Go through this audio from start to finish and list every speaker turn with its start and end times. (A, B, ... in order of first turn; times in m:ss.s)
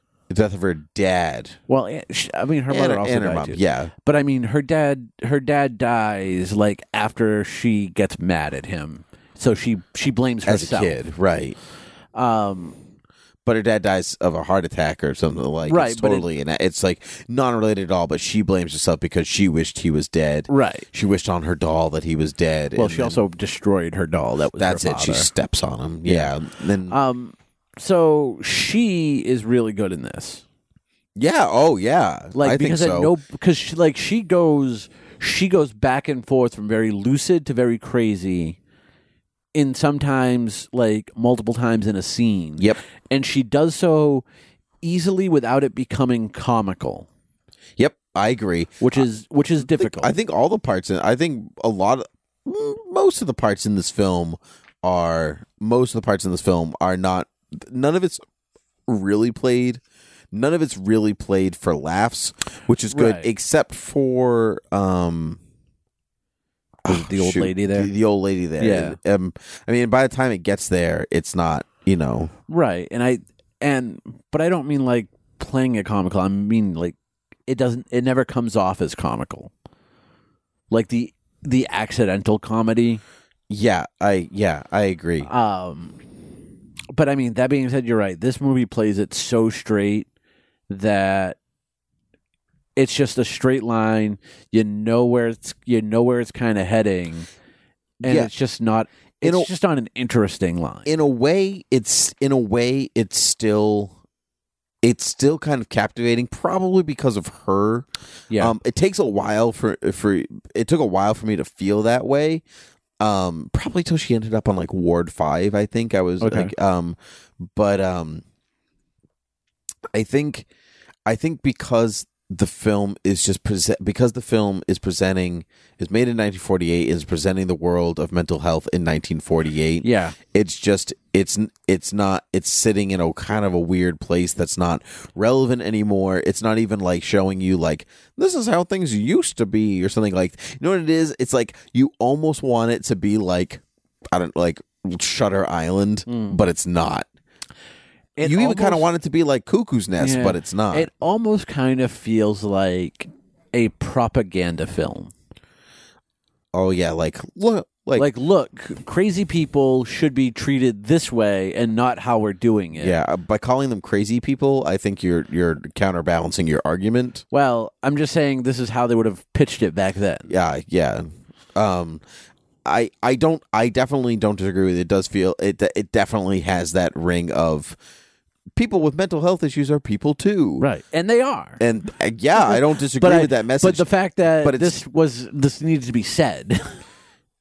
0:00.3-0:01.6 A
0:01.7-0:11.0 B
0:02.7-0:03.9 A
0:10.5-0:11.6 A
0:12.2-0:12.8 B
0:13.4-0:23.2 A
0:15.6-0:16.3 B
0:20.5-0:20.9 B
0:22.8-0:25.3 B
0:24.6-0:27.0 A
0:26.0-0:26.3 B
0:26.9-0:30.4 B
0:31.2-0:33.1 A
0:32.4-0:38.6 B
0:39.5-0:44.2 B
0:44.8-0:47.1 B
0:47.8-0:49.0 A
0:48.8-0:50.1 B
0:49.6-0:58.2 A
0:58.9-0:59.8 A
1:00.3-1:05.4 A
1:02.9-1:03.3 B
1:06.8-1:12.3 A
1:06.9-1:07.9 B
1:08.6-1:09.0 B
1:12.5-1:17.0 B
1:17.5-1:19.5 B
1:20.7-1:23.0 B
1:23.5-1:25.3 A
1:25.2-1:26.0 B
1:26.9-1:30.1 B
1:30.7-1:31.4 B
1:32.8-1:37.3 B
1:38.0-1:40.9 B
1:38.0-1:38.3 A
1:39.2-1:39.5 A
1:40.9-1:43.9 A
1:44.8-1:52.4 A
1:53.0-1:58.2 A
1:56.2-1:56.5 B
1:59.9-2:00.5 A
2:01.1-2:27.1 A
2:09.8-2:10.2 B
2:26.1-2:26.4 B
2:28.2-2:28.9 B
2:28.2-2:30.9 A
2:30.0-2:35.1 B
2:36.5-2:38.1 A
2:38.0-2:43.0 B
2:42.8-2:47.2 A
2:47.3-2:50.3 B
2:50.3-2:52.0 A
2:52.6-2:57.8 A
2:58.6-3:00.7 A
3:00.6-3:01.6 B
3:01.6-3:03.9 A
3:02.4-3:06.8 B
3:04.4-3:04.8 A